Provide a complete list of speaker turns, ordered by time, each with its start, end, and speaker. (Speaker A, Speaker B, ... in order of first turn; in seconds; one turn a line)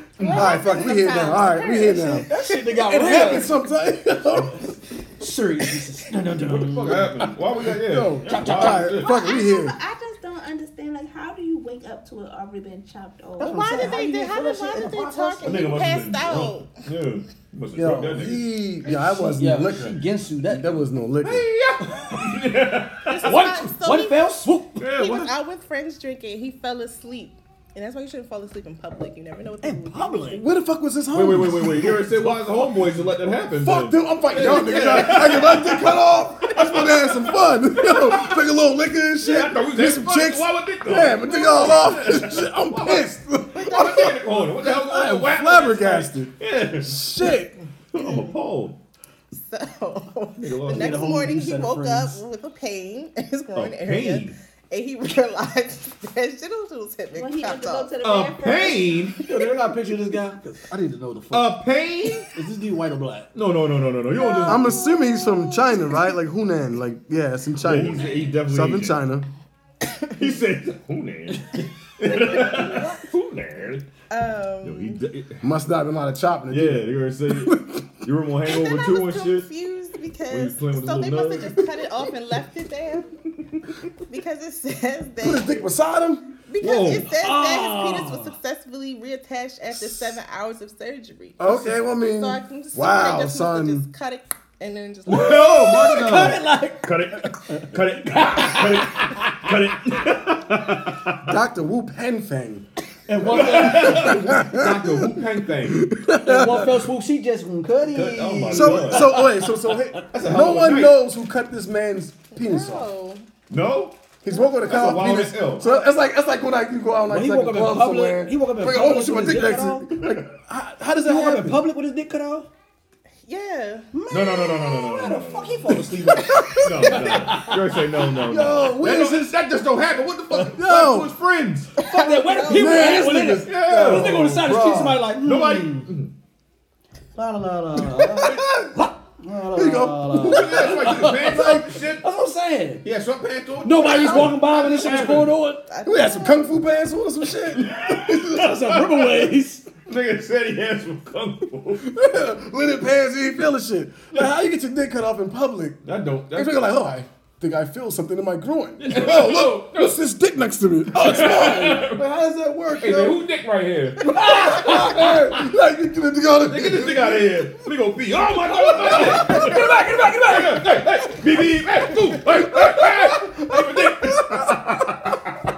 Speaker A: 0.2-2.7
Speaker B: 0.2-0.5
Speaker C: 0.2-2.3
Speaker D: 2.2-3.6
Speaker C: 2.8-4.6
Speaker D: 5.2-7.2
Speaker B: 6.4-9.2
Speaker C: 7.6-9.8
Speaker D: 8.2-9.0
Speaker E: 8.9-14.0
Speaker D: 13.4-15.9
Speaker A: 13.4-16.7
Speaker B: 15.4-18.5
Speaker C: 17.7-21.5
Speaker D: 18.9-20.7
Speaker B: 21.2-23.3
Speaker A: 23.1-30.3
Speaker D: 23.2-24.9
Speaker B: 24.8-25.3
Speaker D: 29.6-30.4
Speaker C: 30.3-32.7
Speaker B: 31.1-38.4
Speaker C: 33.5-47.5
Speaker B: 39.2-47.1
Speaker A: 43.5-44.2
Speaker B: 47.9-48.8
Speaker A: 48.0-48.2
Speaker A: 49.3-57.9
Speaker B: 50.4-51.1
Speaker D: 50.7-52.2
Speaker B: 53.5-54.4
Speaker E: 57.1-59.0
Speaker B: 58.0-59.2
Speaker D: 59.2-61.6
Speaker B: 61.3-62.3
Speaker D: 62.3-63.3
Speaker B: 63.3-64.7
Speaker A: 64.2-65.7
Speaker C: 64.4-69.3
Speaker B: 67.6-69.0
Speaker B: 70.1-73.8
Speaker A: 74.1-75.0
Speaker B: 74.6-75.4
Speaker C: 75.4-77.8
Speaker B: 76.5-79.5
Speaker A: 78.5-83.1
Speaker B: 80.3-81.6
Speaker A: 84.1-85.6
Speaker C: 85.2-86.3
Speaker A: 86.5-95.8
Speaker B: 86.6-87.1
Speaker D: 87.1-88.3
Speaker C: 91.4-93.8
Speaker D: 95.0-96.9
Speaker B: 95.1-101.2
Speaker D: 98.1-99.3
Speaker C: 101.2-102.7
Speaker D: 103.1-104.4
Speaker B: 103.2-105.9
Speaker C: 103.6-106.8
Speaker D: 106.2-110.0
Speaker B: 107.8-109.3
Speaker C: 108.5-112.9
Speaker B: 110.1-111.0
Speaker A: 112.3-113.2
Speaker B: 113.5-114.0
Speaker C: 114.2-121.6
Speaker A: 114.3-114.6
Speaker B: 114.6-115.7
Speaker D: 117.1-119.9
Speaker B: 120.0-120.3
Speaker D: 121.0-122.5
Speaker A: 123.2-123.9
Speaker D: 123.9-128.1
Speaker B: 124.1-131.7
Speaker C: 128.2-129.3
Speaker C: 130.4-131.1
Speaker D: 131.8-135.9
Speaker A: 131.9-132.9
Speaker C: 132.4-135.1
Speaker B: 133.3-134.5
Speaker B: 135.2-136.1
Speaker D: 137.1-142.8
Speaker C: 138.2-138.7
Speaker C: 139.5-140.6
Speaker B: 140.1-142.0
Speaker B: 142.8-145.3
Speaker D: 143.6-145.6
Speaker A: 145.7-146.5
Speaker C: 145.8-148.6
Speaker B: 147.6-151.9
Speaker D: 147.7-149.7
Speaker C: 151.8-155.8
Speaker B: 155.8-156.8
Speaker C: 156.3-163.2
Speaker B: 158.8-160.0
Speaker B: 160.9-162.0
Speaker B: 162.8-165.2
Speaker C: 164.0-167.5
Speaker B: 166.4-175.4
Speaker D: 168.6-170.7
Speaker C: 168.8-170.1
Speaker C: 172.2-174.8